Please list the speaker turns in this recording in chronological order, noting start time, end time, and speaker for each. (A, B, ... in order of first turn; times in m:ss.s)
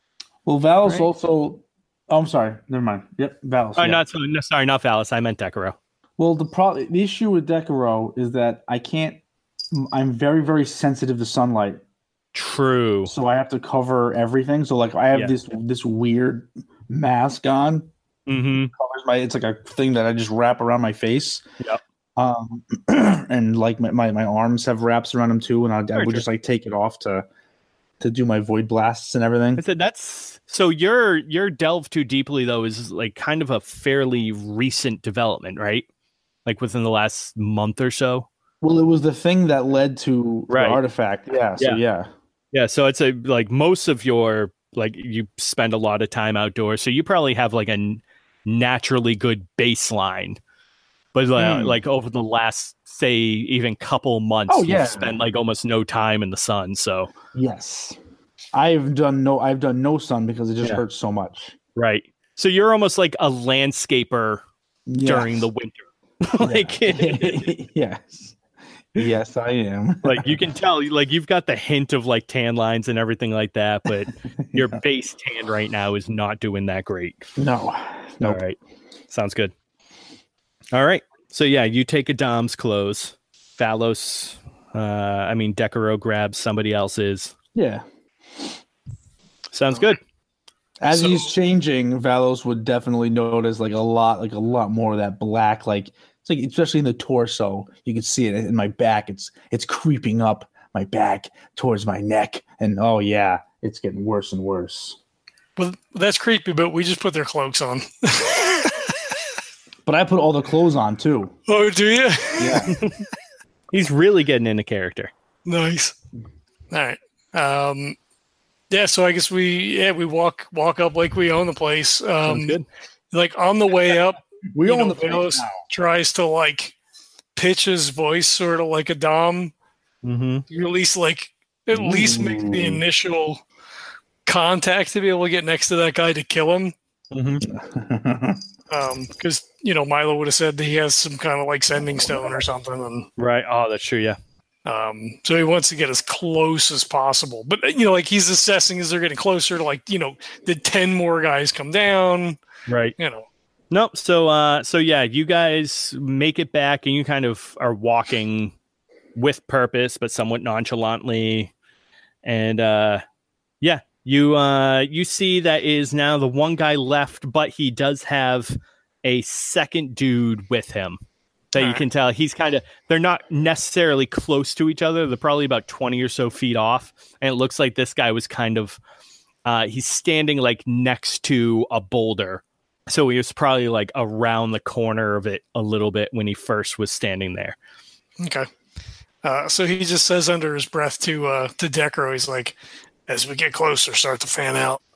0:00.5-0:04.0 A
0:03.8-0:05.8 B
0:06.2-0:09.2 A
0:09.7-0:11.8 A
0:12.3-0:13.1 B
0:13.1-0:17.9 A
0:18.3-0:18.7 B
0:18.7-0:21.4 A
0:22.2-0:27.3 A
0:26.0-0:26.2 B
0:28.0-0:29.6 A
0:29.6-0:35.9 B
0:36.4-0:38.3 B
0:38.6-0:42.1 A
0:40.5-0:40.8 B
0:42.5-0:50.4 B
0:51.1-0:57.1 B
0:51.4-0:51.8 A
0:54.5-0:55.2 A
0:57.3-0:58.0 A
0:58.5-1:01.6 A
1:01.8-1:04.4 B
1:04.9-1:05.5 A
1:05.0-1:07.5 B
1:06.4-1:08.4 A
1:08.9-1:10.4 A
1:10.0-1:17.3 B
1:14.4-1:14.8 A
1:17.4-1:18.4 A
1:18.2-1:18.6 B
1:19.1-1:19.5 B
1:20.7-1:27.3 B
1:27.6-1:27.8 A
1:29.5-1:30.0 B
1:30.8-1:45.0 A
1:30.9-1:31.3 C
1:45.6-1:49.0 C
1:49.9-1:51.3 A
1:51.5-1:52.8 C
1:52.4-1:52.8 A
1:52.7-1:53.0 B
1:53.7-1:55.1 B
1:55.5-1:56.0 C
1:56.7-1:58.0 C
1:58.7-2:02.6 C
2:02.3-2:02.7 B
2:03.1-2:06.7 C
2:04.5-2:05.6 A
2:07.4-2:09.5 C
2:10.0-2:10.4 B
2:10.5-2:13.4 C
2:11.7-2:12.8 A
2:14.3-2:16.7 C
2:17.1-2:17.4 B
2:17.4-2:18.4 A
2:18.7-2:23.1 C
2:22.0-2:22.4 A
2:23.2-2:24.2 B
2:24.6-2:32.4 C
2:32.7-2:32.9 B
2:33.0-2:33.3 C
2:33.7-2:38.5 B
2:39.2-2:41.5 B
2:42.2-2:43.0 B
2:43.6-2:51.0 B
2:51.5-2:58.8 B
2:51.6-2:51.8 C
2:59.4-3:07.6 B
3:08.2-3:08.5 C
3:09.2-3:12.6 C
3:13.1-3:14.8 C